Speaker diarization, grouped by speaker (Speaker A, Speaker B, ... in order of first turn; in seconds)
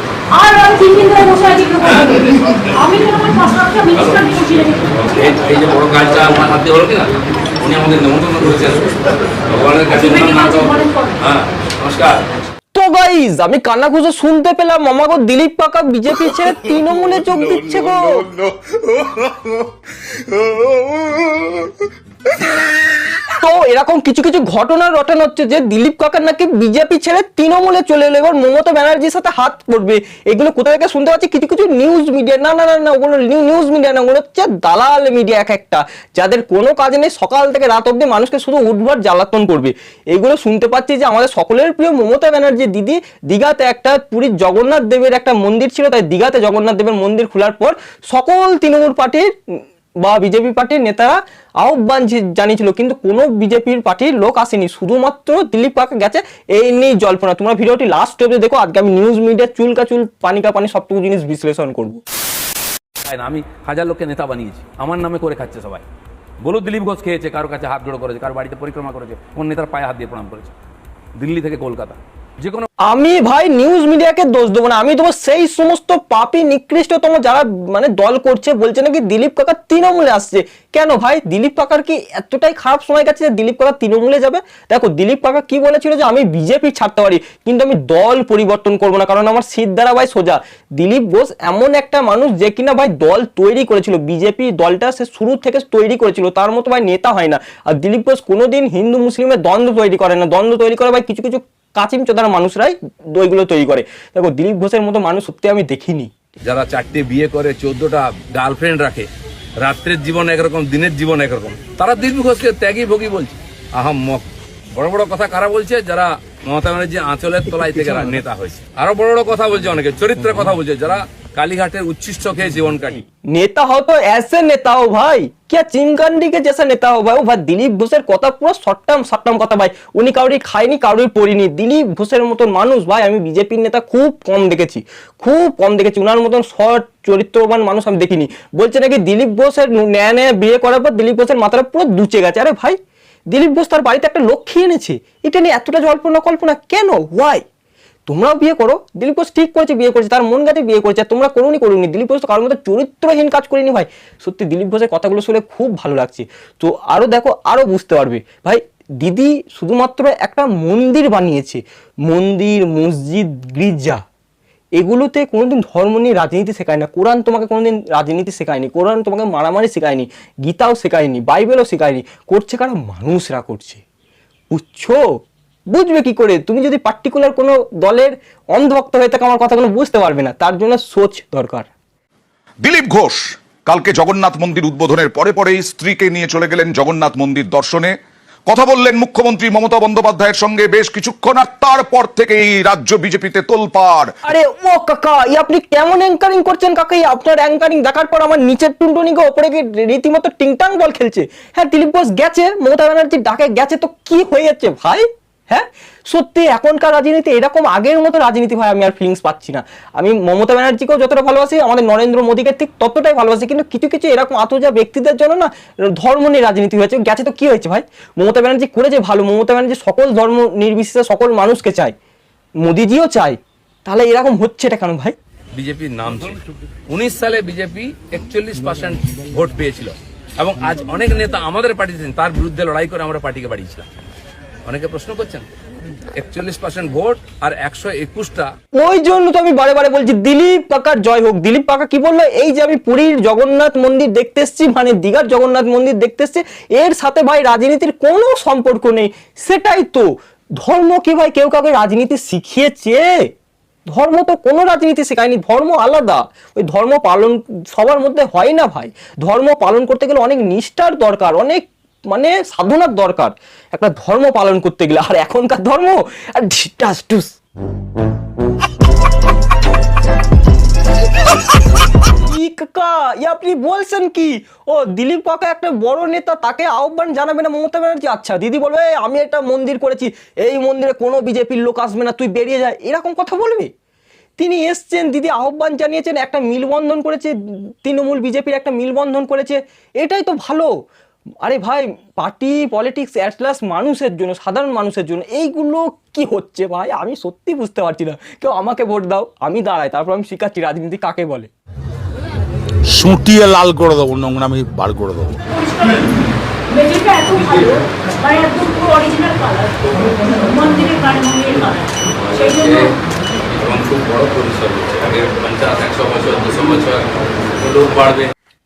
Speaker A: 0.3-5.3, 9.9-11.2, 305.5-306.1, 306.7-312.9
Speaker B: 1.8-2.7, 4.0-12.2, 63.0-65.8, 66.4-70.5, 71.2-72.7, 106.4-109.1, 109.6-123.0, 225.5-226.4, 226.9-233.8, 234.7-235.5, 236.2-238.5, 312.2-312.9, 313.5-318.3
Speaker C: 12.8-18.5, 23.1-62.0, 72.8-106.1, 117.6-118.2, 123.3-142.8, 143.3-147.4, 148.1-164.0, 164.8-173.8, 174.5-175.0, 175.7-181.7, 194.3-221.9, 222.6-225.1, 238.8-253.3, 253.9-267.3, 272.2-283.7, 284.4-290.7, 291.4-301.5
Speaker D: 182.6-187.9, 188.5-194.1
Speaker E: 302.9-305.4